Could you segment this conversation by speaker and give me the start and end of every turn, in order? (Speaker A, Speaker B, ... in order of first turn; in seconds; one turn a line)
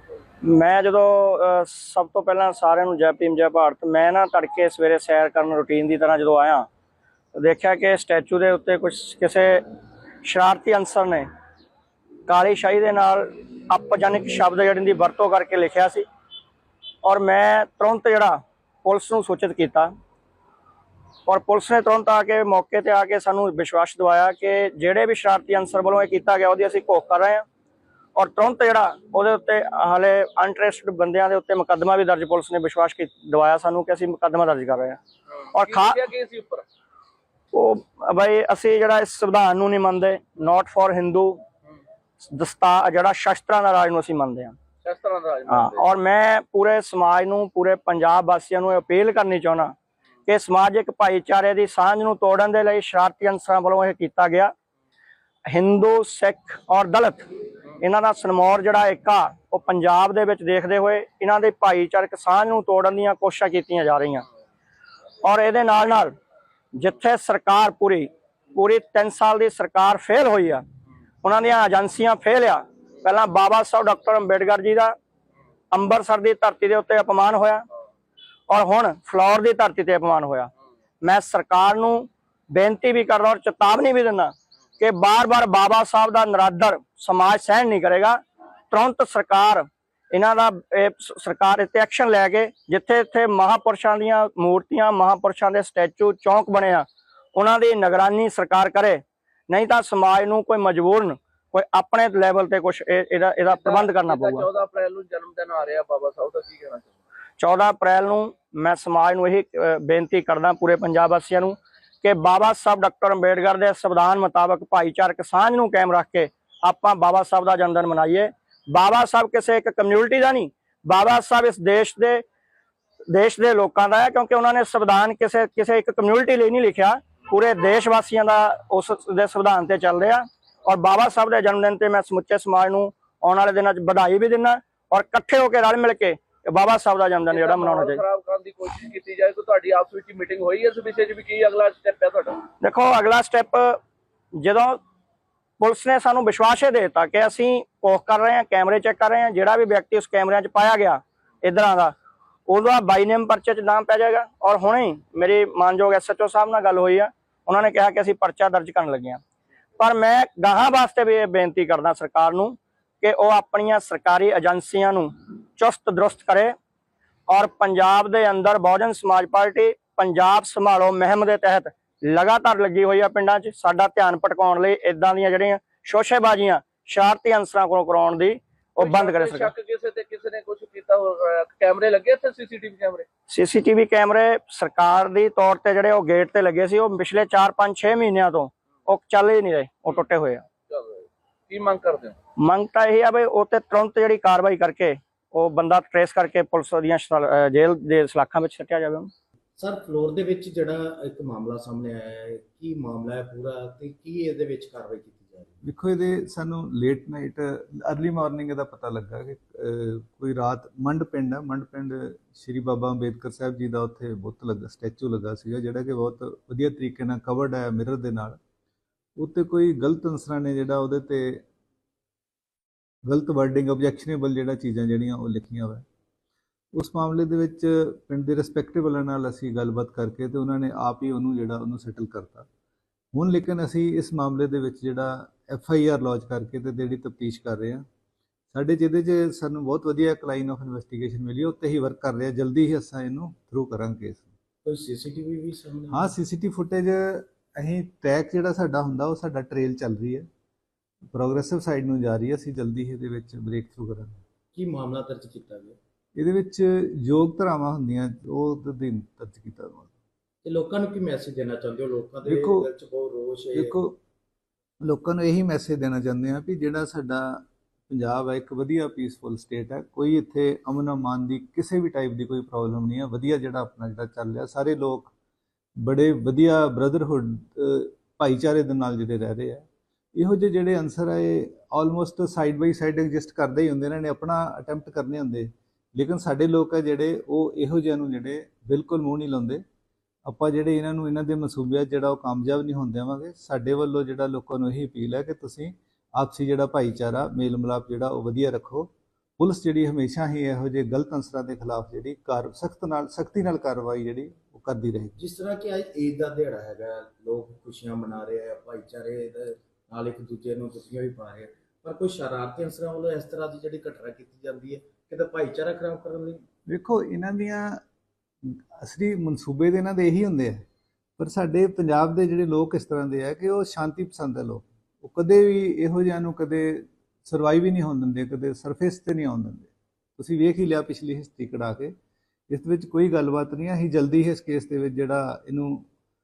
Speaker A: 0.4-6.7
Speaker A: 7.3-9.6
Speaker A: 10.2-11.3
Speaker A: 12.3-16.1
Speaker A: 17.0-19.9
Speaker A: 21.3-27.4
Speaker A: 28.2-35.0
Speaker B: 35.5-36.7
Speaker A: 35.5-36.0
Speaker A: 37.5-41.4
Speaker A: 42.2-44.6
Speaker B: 44.8-45.9
Speaker A: 45.5-49.7
Speaker A: 50.3-54.5
Speaker A: 55.5-57.2
Speaker A: 57.8-64.2
Speaker A: 65.2-66.1
Speaker A: 66.8-70.6
Speaker A: 71.2-74.9
Speaker A: 75.7-77.7
Speaker A: 78.5-80.5
Speaker A: 81.0-88.2
Speaker A: 88.7-104.5
Speaker B: 103.5-107.0
Speaker A: 107.4-122.2
Speaker A: 123.1-138.0
Speaker B: 137.3-142.4
Speaker A: 142.6-143.8
Speaker A: 144.4-144.8
Speaker A: 145.6-151.9
Speaker A: 152.5-159.2
Speaker A: 159.8-166.5
Speaker A: 167.3-179.5
Speaker B: 178.8-183.1
Speaker A: 183.3-190.4
Speaker B: 190.7-192.2
Speaker A: 192.4-199.1
Speaker C: 199.6-205.6
Speaker D: 205.6-218.4
Speaker D: 219.2-221.4
Speaker D: 223.1-225.8
Speaker D: 226.8-232.5
Speaker D: 233.2-237.8
Speaker D: 238.5-244.3
Speaker C: 244.7-246.2
Speaker D: 245.9-250.3
Speaker D: 251.1-254.2
Speaker C: 254.6-255.8
Speaker D: 256.2-259.9
Speaker C: 260.4-263.8
Speaker D: 262.3-262.7
Speaker D: 263.5-264.0
Speaker D: 264.8-275.1
Speaker D: 275.8-289.6
Speaker D: 290.2-305.2
Speaker C: 305.2-316.4
Speaker D: 316.7-317.8
Speaker D: 318.8-320.6
Speaker D: 321.2-331.9
Speaker D: 332.5-335.9